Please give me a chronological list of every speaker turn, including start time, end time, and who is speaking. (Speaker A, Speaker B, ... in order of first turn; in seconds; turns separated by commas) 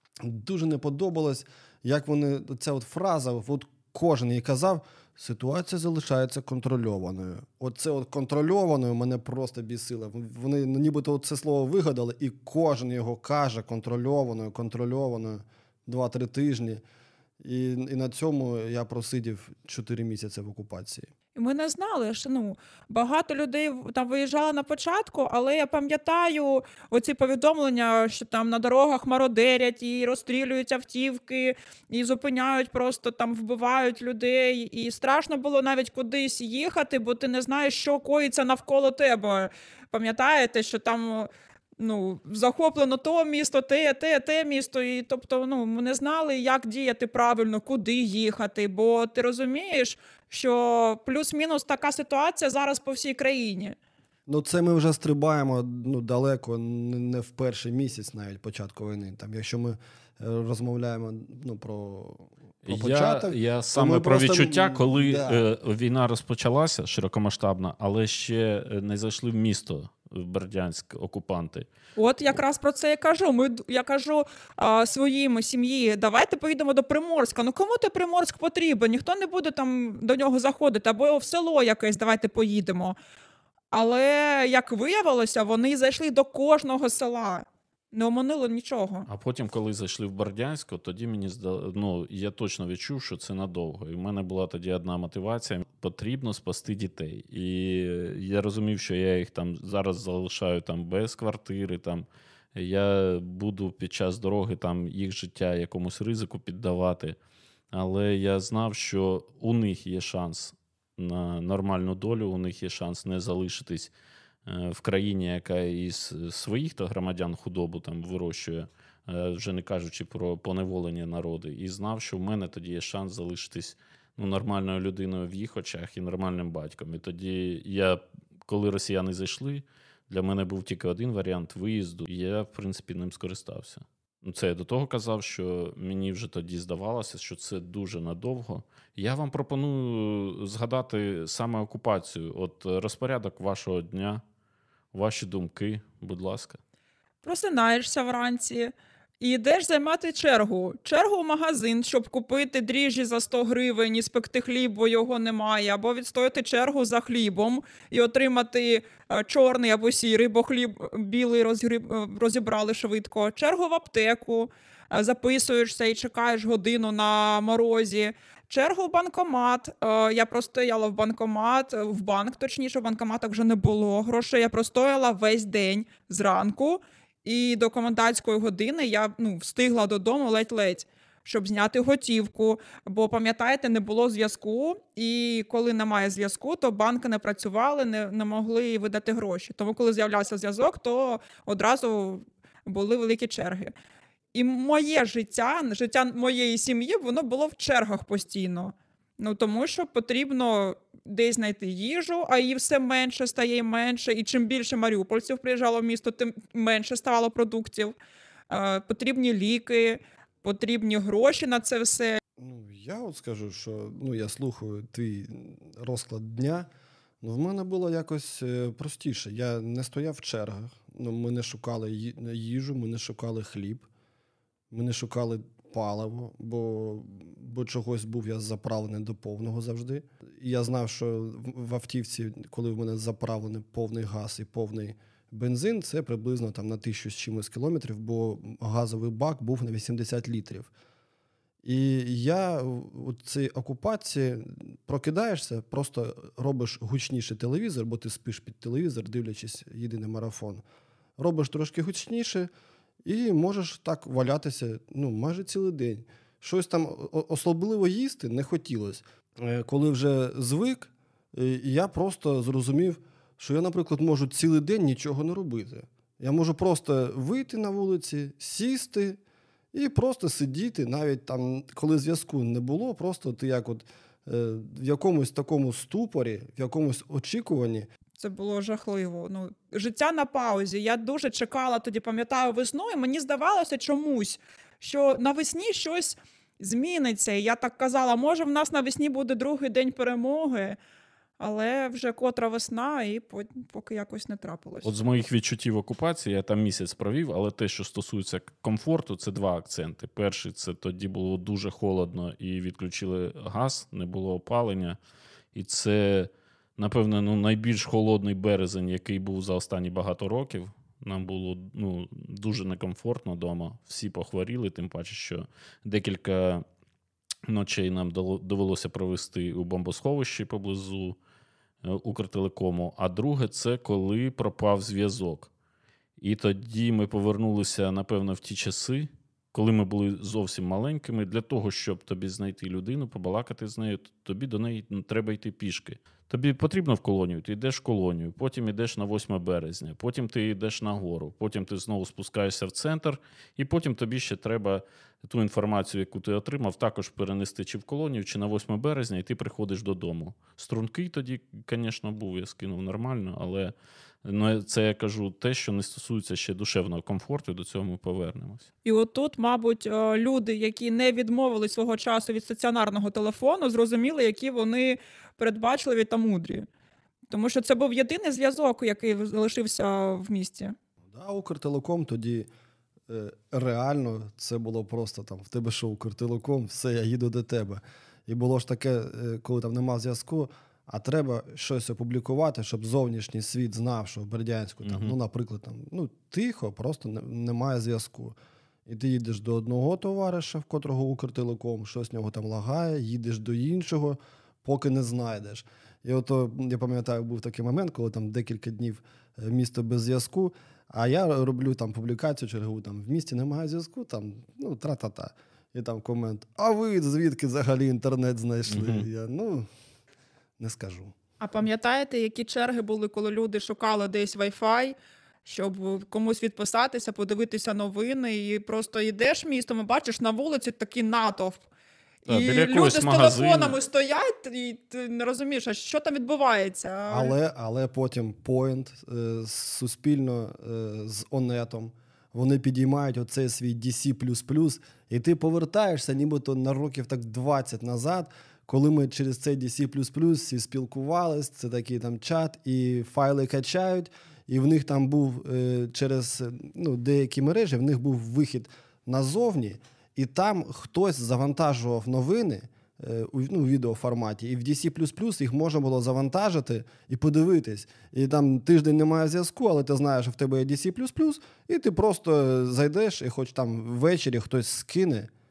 Speaker A: 0.2-16.8, Speaker A: 17.4-21.1, Speaker B: 21.4-53.8, Speaker A: 54.3-65.5, Speaker C: 62.6-71.7, Speaker B: 72.0-83.0, Speaker B: 83.7-89.1, Speaker C: 89.1-107.2, Speaker C: 107.7-113.9, Speaker C: 114.5-144.2, Speaker C: 144.9-146.6, Speaker B: 147.2-193.7, Speaker B: 194.3-207.9, Speaker B: 208.5-212.2, Speaker A: 212.4-216.7, Speaker A: 217.2-223.9, Speaker A: 224.7-240.7, Speaker A: 241.6-250.6, Speaker A: 251.2-252.5, Speaker A: 253.0-269.2, Speaker A: 269.7-277.9, Speaker B: 278.2-290.8, Speaker B: 291.4-294.9, Speaker C: 294.8-305.0, Speaker C: 305.5-316.6, Speaker C: 317.5-321.2, Speaker C: 321.8-325.5, Speaker C: 326.2-358.7, Speaker B: 358.9-366.7, Speaker B: 367.3-370.8, Speaker A: 371.1-372.5, Speaker A: 373.1-409.7, Speaker C: 384.8-385.1, Speaker C: 408.7-409.1, Speaker A: 410.6-411.1, Speaker B: 411.4-421.6, Speaker C: 422.3-423.8, Speaker B: 422.3-427.3, Speaker A: 427.1-465.3